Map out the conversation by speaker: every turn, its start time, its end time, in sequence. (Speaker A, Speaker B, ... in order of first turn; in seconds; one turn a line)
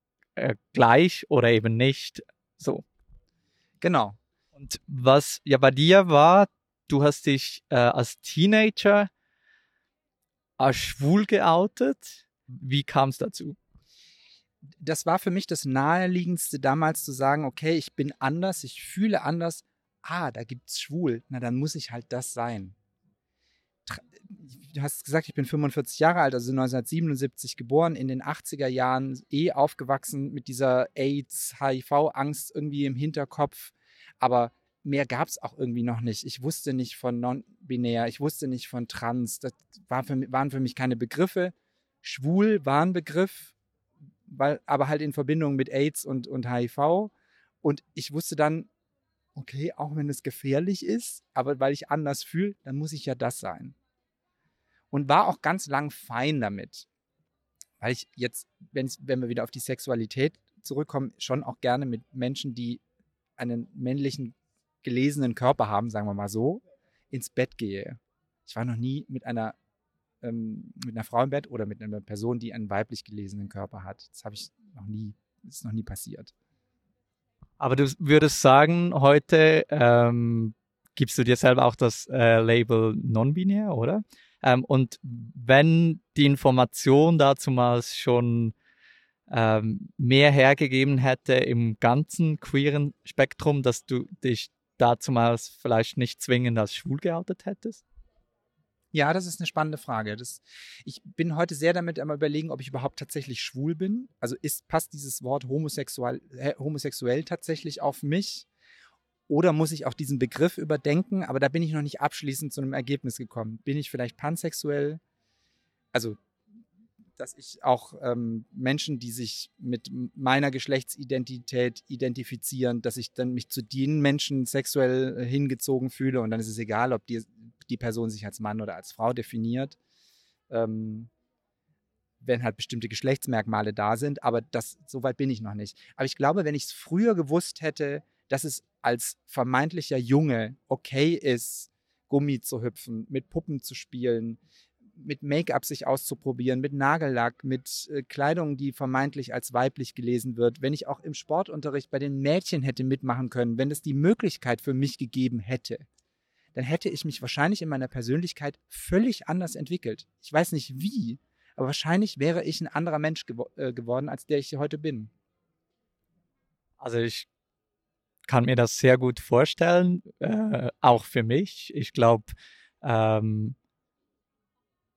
Speaker A: 0.3-2.8
Speaker B: 3.8-4.2
Speaker A: 4.5-9.1
Speaker A: 10.6-13.6
Speaker B: 14.8-22.8
Speaker B: 23.9-43.5
Speaker B: 44.3-47.1
Speaker B: 47.6-48.7
Speaker B: 49.3-53.8
Speaker B: 54.9-56.9
Speaker B: 57.8-62.8
Speaker B: 63.4-69.5
Speaker B: 70.2-76.3
Speaker A: 77.6-88.5
Speaker A: 89.3-97.8
Speaker B: 98.9-108.5
Speaker B: 109.3-115.0
Speaker B: 115.9-116.2
Speaker B: 117.2-129.8
Speaker B: 130.5-131.1
Speaker B: 132.2-144.4
Speaker B: 145.0-155.8
Speaker B: 156.5-165.1
Speaker A: 166.8-167.3
Speaker A: 168.3-172.3
Speaker A: 172.8-173.6